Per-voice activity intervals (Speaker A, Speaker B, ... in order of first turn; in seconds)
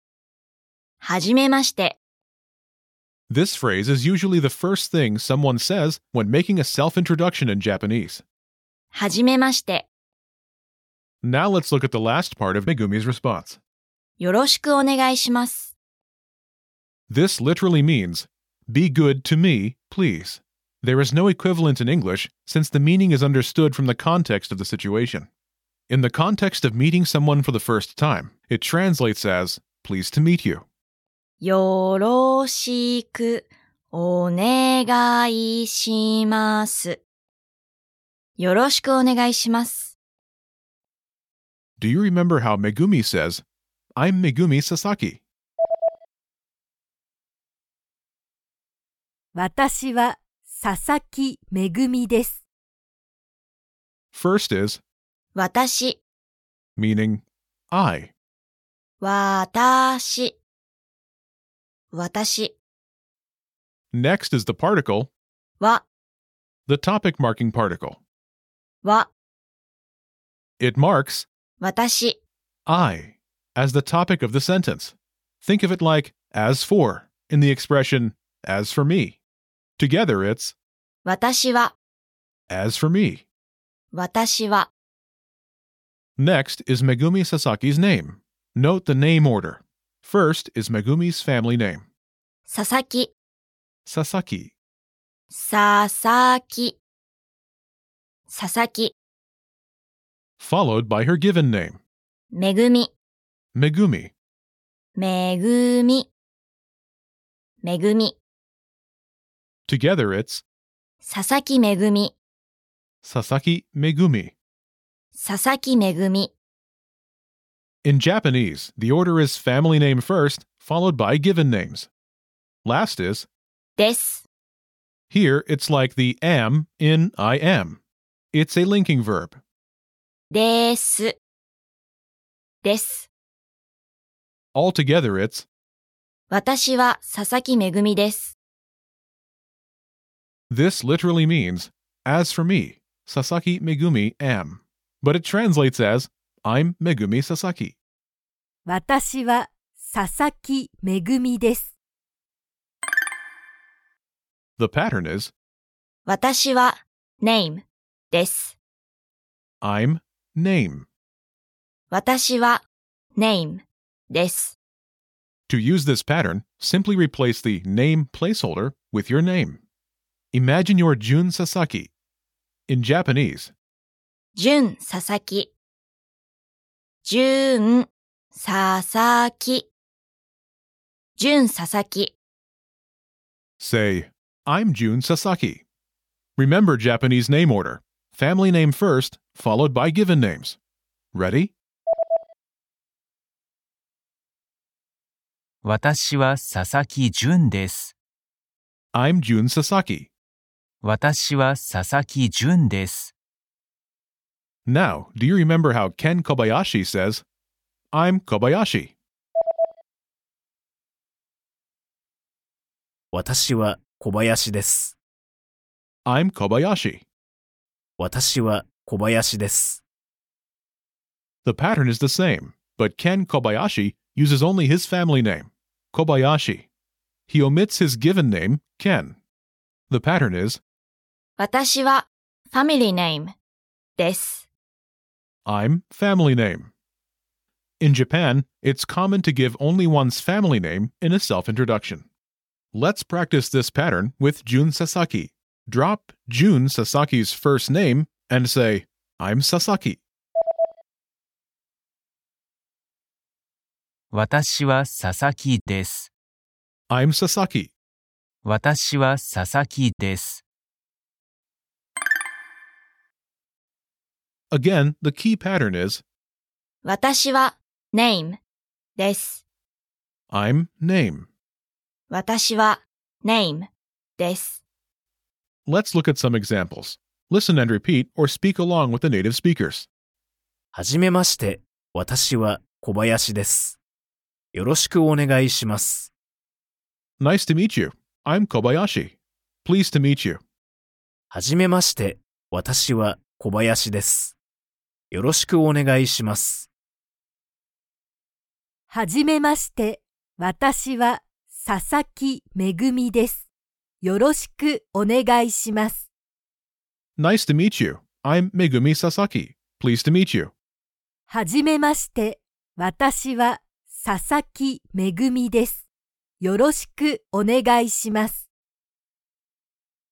Speaker A: 1.0-2.0, 8.9-9.9, 14.2-15.8, 31.4-37.0, 38.4-40.0, 55.3-56.0, 59.0-60.4, 61.9-62.6, 68.8-69.1, 71.6-72.2, 81.0-81.7, 83.9-84.7, 92.5-93.1, 95.3-96.8, 98.3-98.9, 102.3-102.9, 105.0-106.1, 107.6-108.2, 111.0-112.1, 115.1-116.3, 123.8-124.3, 130.3-131.2, 132.6-133.1, 136.3-138.4, 156.1-158.6, 161.9-162.6, 163.2-164.6, 174.3-175.5, 177.0-179.7, 181.2-182.1, 231.4-233.3, 234.0-234.5, 266.8-268.4, 269.0-269.4, 272.1-274.6
Speaker B: 3.3-8.2, 11.2-13.6, 17.1-25.3, 25.9-30.7, 41.8-43.4, 44.0-45.2, 54.1-54.8, 56.8-58.1, 63.9-65.1, 66.7-68.0, 70.6-71.3, 72.7-79.2, 79.8-80.6, 82.5-83.2, 86.2-91.8, 93.8-94.5, 100.4-101.8, 103.5-104.1, 109.7-110.4, 113.0-114.3, 117.8-121.9, 122.6-123.3, 125.1-127.8, 128.3-129.4, 134.5-135.5, 140.5-147.8, 154.6-155.3, 159.6-160.9, 165.5-169.6, 170.3-171.9, 172.7-173.5, 183.6-185.6, 186.4-190.6, 191.1-191.5, 198.9-200.1, 204.7-207.2, 207.9-208.9, 216.1-217.1, 221.4-226.7, 227.3-229.2, 229.9-230.6, 235.4-236.7, 237.8-242.1, 242.7-250.0, 256.9-257.7, 264.5-266.0, 270.3-271.3, 275.6-279.9, 287.2-290.4, 307.2-310.5
Speaker C: 49.3-52.4, 148.7-151.8, 298.9-303.5, 304.0-306.1, 311.3-315.9, 316.4-318.5
Speaker D: 195.6-197.9, 200.8-203.1, 254.1-256.1, 258.4-260.4
Speaker E: 213.1-214.9, 218.0-219.8, 280.7-283.8, 284.5-286.1, 291.3-294.4, 295.1-296.7